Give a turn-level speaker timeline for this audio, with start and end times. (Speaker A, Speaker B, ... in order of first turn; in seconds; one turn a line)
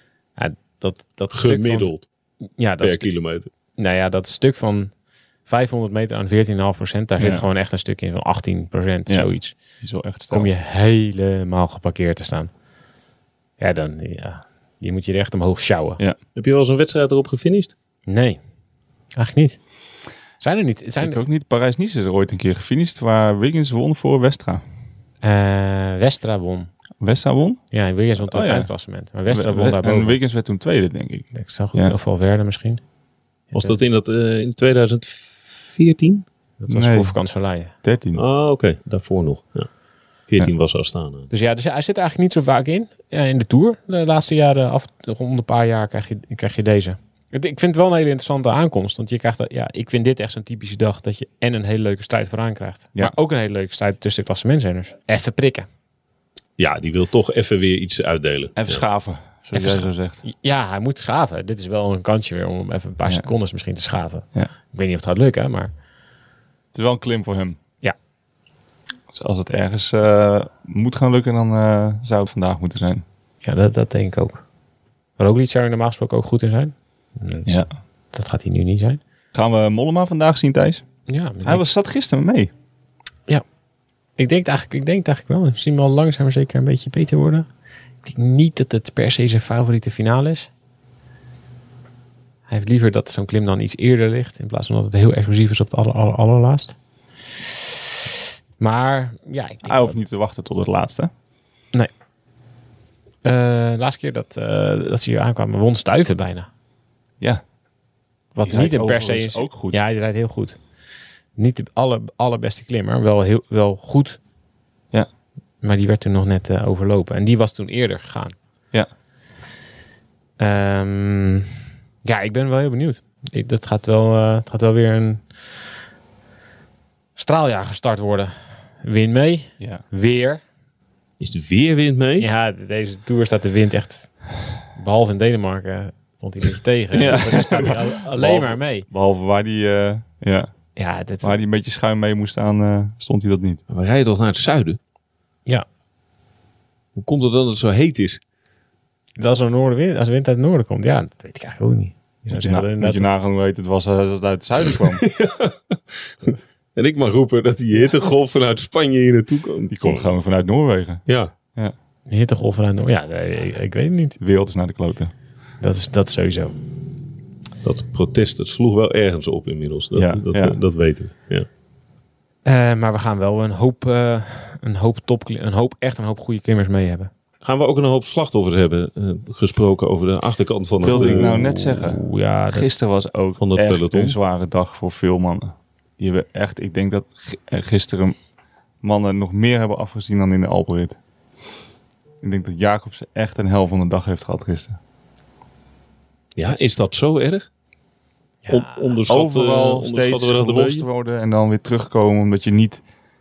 Speaker A: 0.3-1.9
Speaker B: 1.3-2.1
Speaker A: 2.5-3.1
Speaker B: 2.8-3.5
Speaker A: 3.7-4.9
Speaker A: 5.5-9.6
Speaker C: 7.2-7.4
Speaker C: 9.8-10.5
Speaker A: 10.3-12.5
Speaker A: 13.6-16.0
Speaker B: 16.4-17.7
Speaker A: 18.1-18.4
Speaker A: 19.1-19.6
Speaker A: 20.4-21.2
Speaker C: 21.0-24.6
Speaker A: 25.2-26.7
Speaker C: 27.0-27.6
Speaker A: 27.7-30.2
Speaker C: 28.3-28.7
Speaker C: 29.3-31.9
Speaker A: 31.3-32.8
Speaker A: 33.5-33.8
Speaker B: 33.5-36.2
Speaker A: 36.6-37.7
Speaker C: 36.7-37.1
Speaker C: 37.8-38.2
Speaker B: 38.1-39.7
Speaker B: 40.3-41.3
Speaker A: 41.3-55.7
Speaker B: 56.6-58.8
Speaker C: 58.6-60.2
Speaker A: 59.5-65.7
Speaker C: 66.7-67.6
Speaker C: 69.1-73.0
Speaker A: 73.4-74.4
Speaker A: 75.2-77.5
Speaker A: 78.1-79.0
Speaker C: 79.3-80.8
Speaker A: 81.1-81.7
Speaker C: 81.4-82.5
Speaker A: 84.2-87.5
Speaker A: 88.0-90.5
Speaker A: 92.5-96.8
Speaker A: 98.6-100.0
Speaker C: 99.6-101.1
Speaker A: 103.2-106.5
Speaker A: 108.3-110.6
Speaker C: 108.4-109.8
Speaker A: 111.3-114.2
Speaker A: 115.6-118.3
Speaker A: 120.4-125.4
Speaker A: 127.2-130.4
Speaker B: 131.2-132.3
Speaker A: 132.2-138.9
Speaker C: 136.9-140.5
Speaker A: 140.8-141.3
Speaker C: 141.2-143.6
Speaker B: 143.7-144.8
Speaker B: 146.9-148.2
Speaker A: 149.2-153.1
Speaker C: 152.3-155.0
Speaker B: 154.9-160.1
Speaker C: 159.7-161.0
Speaker B: 161.1-161.3
Speaker A: 162.1-164.2
Speaker C: 164.2-165.1
Speaker A: 165.6-166.6
Speaker B: 167.6-171.5
Speaker C: 169.9-170.6
Speaker A: 172.4-177.1
Speaker B: 177.4-181.3
Speaker C: 180.8-188.1
Speaker A: 180.9-182.7
Speaker B: 183.4-184.2
Speaker C: 188.8-191.0
Speaker C: 192.2-194.8
Speaker B: 196.3-197.5
Speaker A: 198.4-198.9
Speaker B: 198.5-200.8
Speaker C: 199.1-202.8